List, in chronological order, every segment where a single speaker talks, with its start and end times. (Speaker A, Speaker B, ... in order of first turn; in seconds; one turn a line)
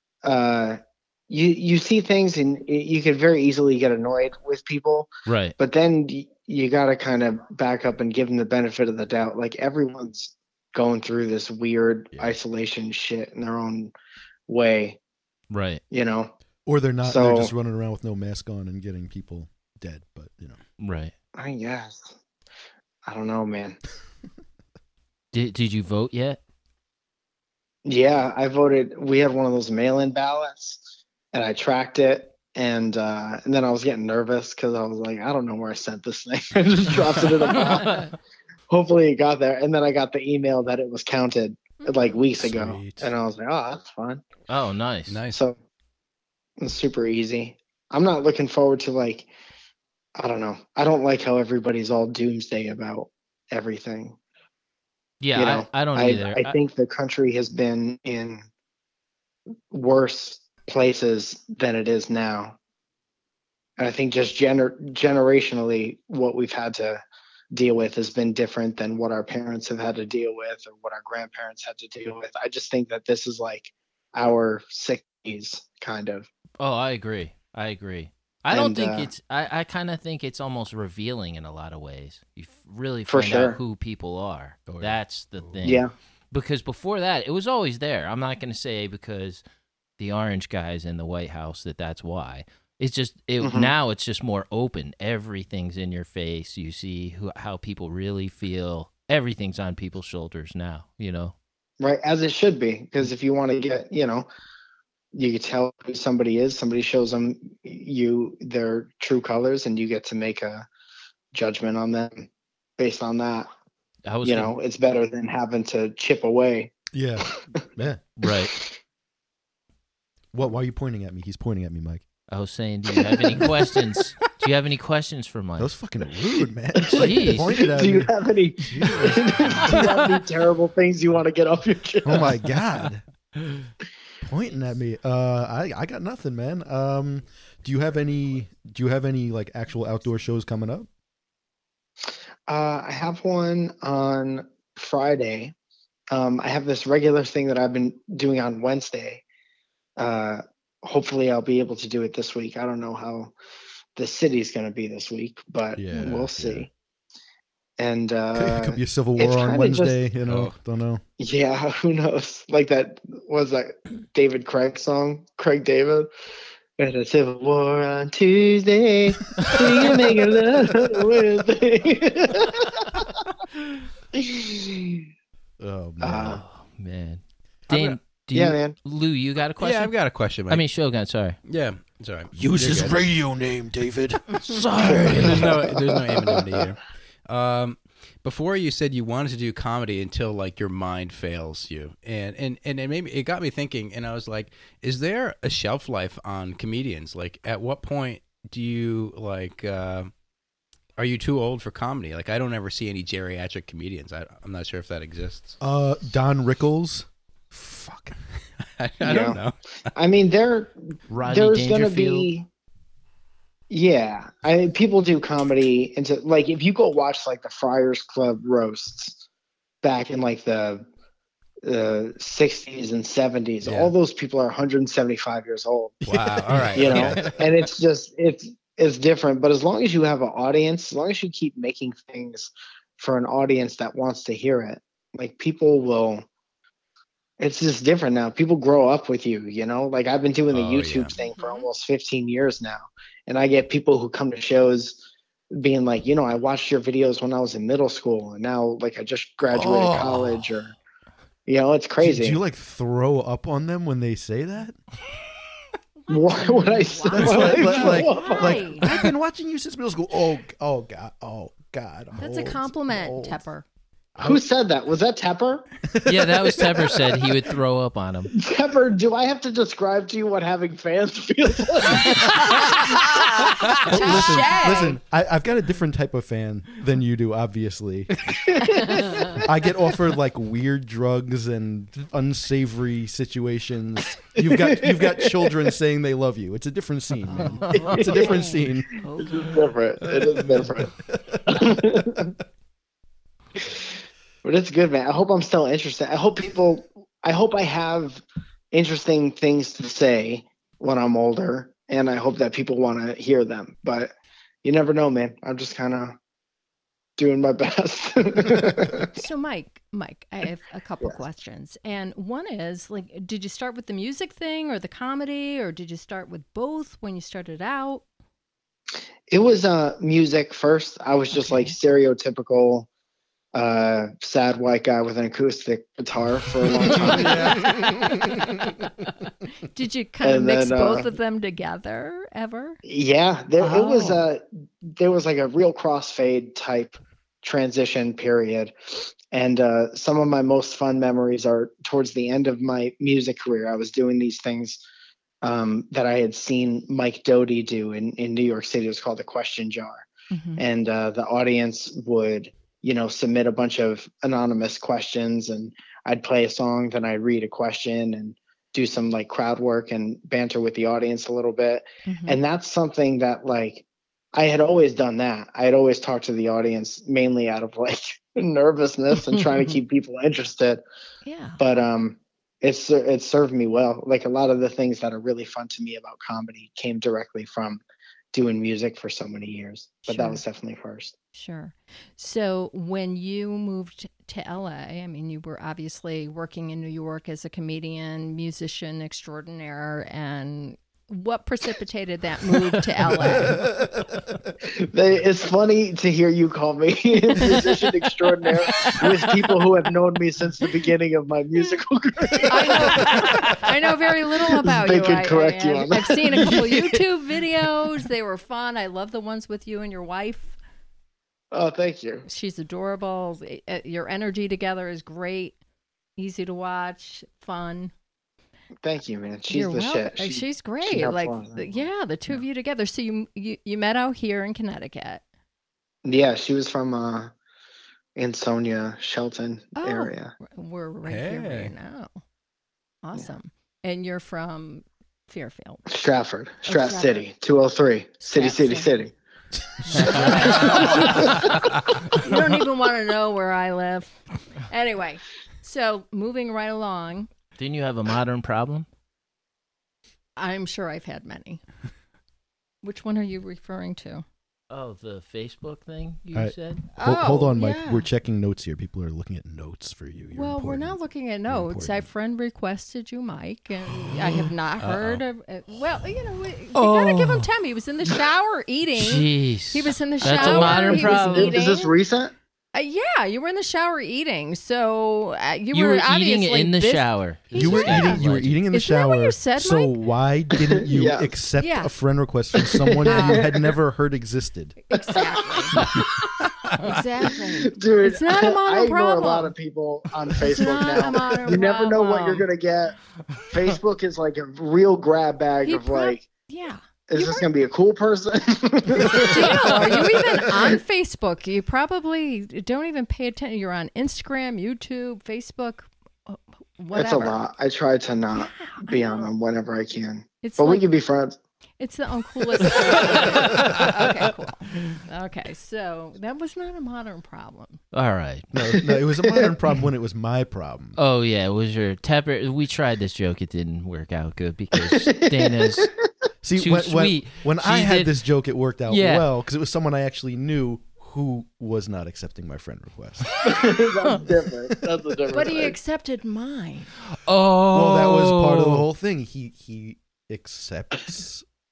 Speaker A: 0.2-13.9
Speaker B: 5.3-5.6
Speaker A: 14.5-15.0
Speaker B: 15.5-15.8
Speaker A: 15.9-16.3
Speaker C: 16.7-20.6
Speaker A: 17.0-17.5
Speaker B: 20.8-21.1
Speaker A: 21.4-22.1
Speaker A: 23.1-23.8
Speaker B: 25.3-26.4
Speaker A: 27.9-38.1
Speaker B: 37.5-38.1
Speaker A: 38.7-44.2
Speaker C: 42.4-43.1
Speaker B: 44.5-45.2
Speaker D: 45.1-45.4
Speaker A: 45.3-45.6
Speaker A: 46.6-49.3
Speaker A: 50.2-54.2
Speaker B: 55.2-56.6
Speaker A: 55.4-58.5
Speaker A: 59.7-62.6
Speaker A: 63.8-76.3
Speaker B: 76.6-89.4
Speaker A: 78.5-79.1
Speaker A: 83.1-83.6
Speaker C: 84.7-85.7
Speaker A: 85.6-85.9
Speaker B: 90.0-101.3
Speaker A: 93.4-93.7
Speaker A: 101.8-104.3
Speaker A: 105.1-110.7
Speaker A: 111.3-113.5
Speaker B: 114.1-114.5
Speaker A: 114.2-116.8
Speaker C: 116.9-118.0
Speaker B: 118.2-118.5
Speaker A: 118.3-118.8
Speaker C: 120.3-122.0
Speaker B: 122.3-125.7
Speaker A: 123.1-123.5
Speaker C: 125.6-129.8
Speaker A: 126.8-132.3
Speaker B: 126.9-127.5
Speaker C: 132.0-133.0
Speaker C: 134.2-140.9
Speaker A: 142.5-145.5
Speaker A: 146.1-149.2
Speaker A: 150.0-153.3
Speaker A: 154.0-156.7
Speaker C: 155.8-156.7
Speaker A: 157.8-160.0
Speaker C: 158.3-161.0
Speaker D: 160.3-160.5
Speaker A: 161.2-166.1
Speaker A: 166.8-173.1
Speaker A: 174.1-175.1
Speaker C: 175.6-176.4
Speaker A: 176.0-176.4
Speaker B: 176.2-181.4
Speaker D: 177.7-178.0
Speaker A: 178.3-178.8
Speaker D: 179.6-180.7
Speaker D: 181.4-183.1
Speaker C: 182.3-185.5
Speaker B: 184.5-185.5
Speaker A: 184.9-186.6
Speaker D: 185.2-200.1
Speaker D: 201.0-205.6
Speaker C: 205.6-208.2
Speaker D: 208.8-209.6
Speaker A: 209.0-209.4
Speaker A: 209.9-212.5
Speaker B: 211.1-212.3
Speaker A: 213.7-219.2
Speaker A: 219.8-220.8
Speaker A: 221.6-226.0
Speaker D: 223.6-223.9
Speaker C: 226.0-227.2
Speaker D: 226.1-227.2
Speaker A: 226.8-236.3
Speaker A: 237.4-250.7
Speaker D: 240.5-241.1
Speaker E: 241.2-241.7
Speaker C: 249.5-250.4
Speaker A: 251.5-252.4
Speaker C: 252.0-254.8
Speaker E: 256.1-258.9
Speaker A: 256.1-258.7
Speaker C: 257.1-263.4
Speaker E: 262.1-263.6
Speaker C: 264.2-264.4
Speaker A: 264.2-265.7
Speaker C: 265.9-267.3
Speaker B: 266.1-268.3
Speaker A: 268.4-273.1
Speaker E: 272.0-275.0
Speaker C: 273.9-278.5
Speaker A: 278.5-279.4
Speaker E: 278.7-279.4
Speaker C: 279.3-289.0
Speaker A: 284.4-285.7
Speaker E: 287.3-289.7
Speaker A: 287.7-290.9
Speaker C: 290.3-292.2
Speaker A: 291.5-292.4
Speaker A: 293.6-293.9
Speaker A: 294.4-304.1
Speaker A: 304.6-306.2
Speaker A: 307.2-309.1
Speaker E: 309.0-318.1
Speaker A: 319.3-322.9
Speaker E: 321.4-321.7
Speaker A: 323.5-327.8
Speaker E: 327.0-332.8
Speaker A: 330.2-331.1
Speaker A: 332.9-344.8
Speaker E: 333.6-334.2
Speaker A: 345.4-370.8
Speaker E: 350.3-350.6
Speaker E: 362.1-362.4
Speaker E: 369.3-369.6
Speaker E: 371.2-371.6
Speaker A: 371.6-377.8
Speaker A: 378.3-381.1
Speaker E: 380.0-380.4
Speaker E: 381.3-393.7
Speaker C: 393.0-394.2
Speaker A: 394.8-403.7
Speaker E: 397.4-397.7
Speaker E: 398.6-399.6
Speaker E: 402.5-410.6
Speaker B: 403.2-403.5
Speaker A: 404.4-406.9
Speaker A: 411.5-412.2
Speaker E: 412.2-415.6
Speaker E: 416.2-417.9
Speaker A: 418.8-421.9
Speaker E: 419.5-425.2
Speaker A: 426.1-427.3
Speaker A: 428.2-430.3
Speaker E: 429.8-432.2
Speaker D: 431.0-431.7
Speaker E: 433.0-435.8
Speaker A: 435.9-439.1
Speaker E: 436.6-437.2
Speaker E: 438.2-438.9
Speaker E: 439.8-447.3
Speaker A: 439.9-441.5
Speaker D: 440.1-440.6
Speaker B: 447.6-448.9
Speaker E: 450.4-451.6
Speaker E: 452.8-454.2
Speaker B: 454.7-456.9
Speaker C: 456.3-462.1
Speaker E: 456.9-458.1
Speaker E: 460.4-471.9
Speaker D: 464.8-465.2
Speaker B: 466.7-467.5
Speaker B: 469.0-471.6
Speaker A: 470.2-472.3
Speaker E: 472.7-480.0
Speaker B: 475.7-478.6
Speaker C: 477.5-484.8
Speaker A: 480.9-481.4
Speaker E: 481.6-481.9
Speaker A: 482.7-483.7
Speaker E: 483.1-483.4
Speaker E: 484.9-486.0
Speaker A: 485.1-485.9
Speaker E: 486.7-489.6
Speaker A: 486.8-493.0
Speaker E: 490.4-492.5
Speaker A: 493.5-496.3
Speaker E: 495.6-497.5
Speaker A: 497.1-500.8
Speaker E: 499.1-507.4
Speaker A: 506.9-511.4
Speaker E: 508.3-509.3
Speaker E: 510.4-510.9
Speaker E: 511.8-517.8
Speaker A: 512.6-513.2
Speaker B: 517.9-518.5
Speaker C: 518.5-521.0
Speaker A: 519.0-519.5
Speaker B: 521.0-525.9
Speaker A: 525.0-525.9
Speaker C: 526.4-533.5
Speaker B: 526.6-528.2
Speaker B: 528.9-529.3
Speaker A: 533.4-535.8
Speaker E: 535.3-536.9
Speaker B: 537.1-538.9
Speaker C: 537.7-541.5